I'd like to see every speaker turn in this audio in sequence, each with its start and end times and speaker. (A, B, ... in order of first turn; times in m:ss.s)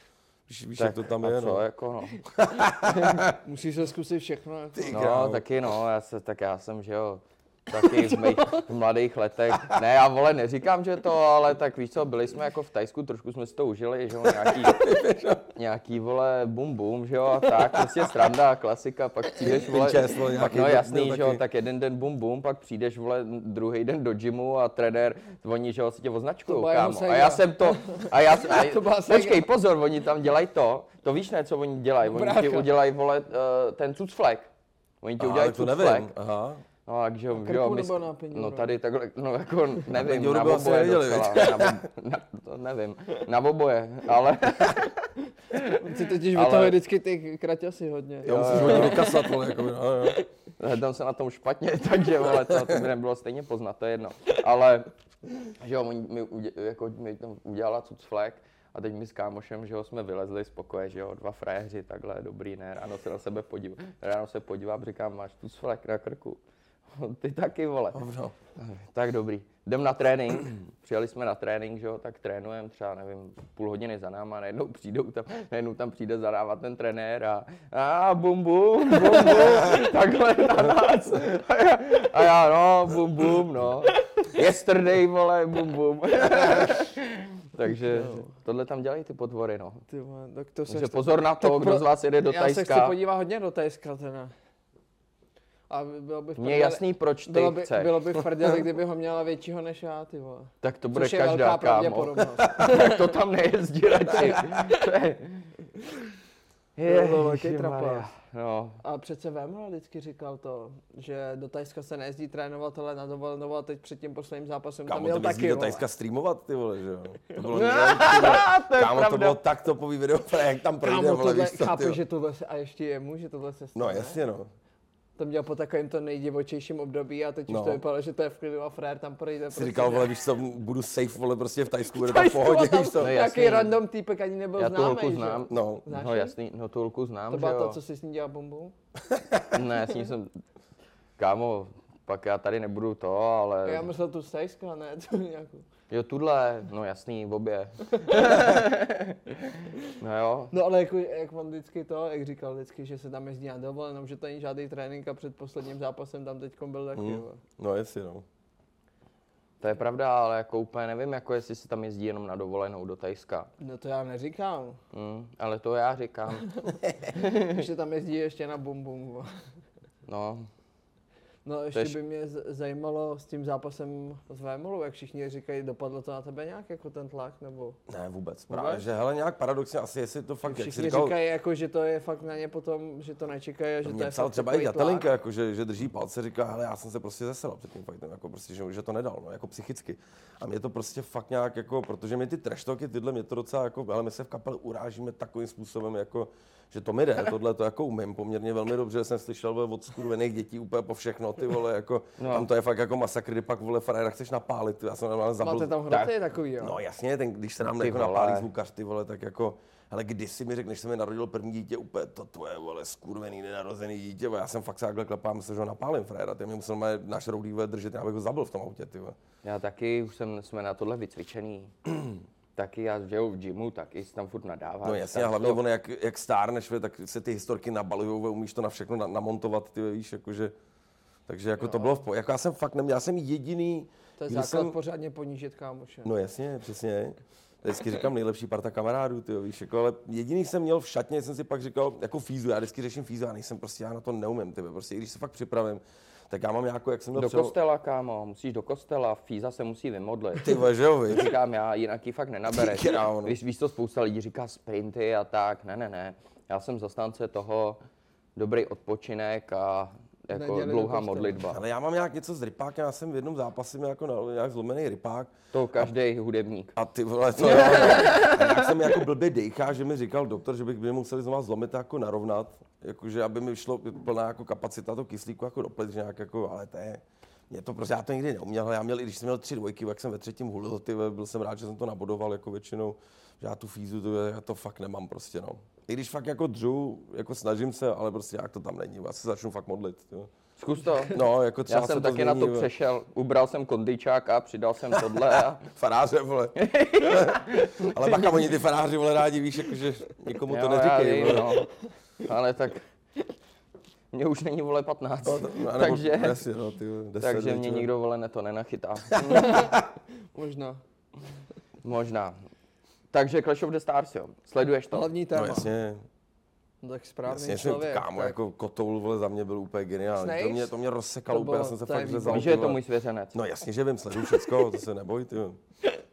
0:00.5-0:01.6 A
0:00.8-0:02.2 B
0:02.3-0:03.4 A
0:03.1-0:05.0 C
0:04.7-0:05.4 A
0:04.9-0:14.8 B
0:08.1-0:08.6 C
0:14.2-0:15.5 A
0:15.5-0:34.5 B
0:17.6-0:18.0 A
0:19.4-0:21.4 A
0:26.5-0:29.5 C
0:32.0-0:32.7 C
0:35.0-0:36.1 B
0:35.2-0:36.6 A
0:36.8-0:46.8 B
0:37.4-0:38.8 C
0:39.9-0:41.8 A
0:45.7-0:49.4 C
0:48.2-0:50.2 A
0:48.2-0:49.1 B
0:50.6-0:54.9 B
0:55.5-1:06.4 B
1:06.9-1:08.0 B
1:07.9-1:08.3 A
1:08.6-1:29.8 B
1:27.8-1:28.3 C
1:29.9-1:34.3 C
1:30.7-1:33.0 B
1:35.7-1:43.2 C
1:36.4-1:38.0 B
1:40.6-1:45.5 B
1:44.2-1:44.6 C
1:46.8-1:48.8 B
1:46.8-1:48.1 C
1:48.8-1:55.8 C
1:54.9-2:02.0 A
1:57.5-1:59.4 B
2:00.8-2:04.2 C
2:03.7-2:04.5 A
2:05.2-2:10.1 C
2:07.5-2:07.8 A
2:09.5-2:13.2 A
2:11.9-2:16.3 C
2:13.0-2:13.8 B
2:14.6-2:17.8 B
2:15.5-2:15.8 A
2:17.3-2:18.7 C
2:19.1-2:19.4 A
2:19.5-2:20.4 B
2:21.2-2:23.9 B
2:23.6-2:25.6 C
2:25.9-2:29.3 B
2:28.0-2:28.4 C
2:29.8-2:30.5 B
2:30.5-2:37.4 C
2:36.9-2:38.2 A
2:39.6-2:43.5 B
2:43.6-2:44.8 C
2:44.9-2:46.5 B
2:47.1-2:47.6 B
2:47.2-2:49.3 C
2:50.1-2:50.5 B
2:51.4-2:57.8 C
2:57.9-3:01.2 A
2:58.5-2:58.8 C
3:00.4-3:05.1 C
3:03.8-3:26.1 A
3:22.2-3:22.5 B
3:25.4-3:26.8 C
3:26.6-3:39.2 A
3:27.8-3:28.5 B
3:39.4-3:41.7 B
3:42.6-3:45.6 B
3:44.8-3:50.5 A
3:51.3-3:54.8 A
3:51.6-3:52.0 C
3:54.2-3:56.1 C
3:56.0-4:07.5 A
4:07.2-4:17.8 B
4:10.3-4:11.4 A
4:12.5-4:13.4 A
4:18.4-4:21.6 B
4:20.3-4:21.4 C
4:21.5-4:25.9 A
4:25.5-4:26.7 B
4:26.7-4:50.3 A
4:27.4-4:28.7 B
4:50.6-4:55.6 B
4:51.0-4:52.7 A
4:55.0-5:01.6 A
4:56.6-4:58.4 B
5:00.4-5:01.7 B
5:02.2-5:02.8 B
5:04.1-5:06.4 B
5:05.2-5:07.9 A
5:07.2-5:09.6 B
5:09.1-5:09.8 A
5:09.3-5:09.8 C
5:10.3-5:10.8 C
5:11.8-5:12.4 B
5:13.1-5:15.1 B
5:14.9-5:15.7 C
5:15.3-5:16.0 A
5:16.8-5:18.4 C
5:17.2-5:22.8 A
5:20.1-5:20.7 C
5:21.3-5:22.7 C
5:22.3-5:23.4 B
5:23.3-5:25.6 A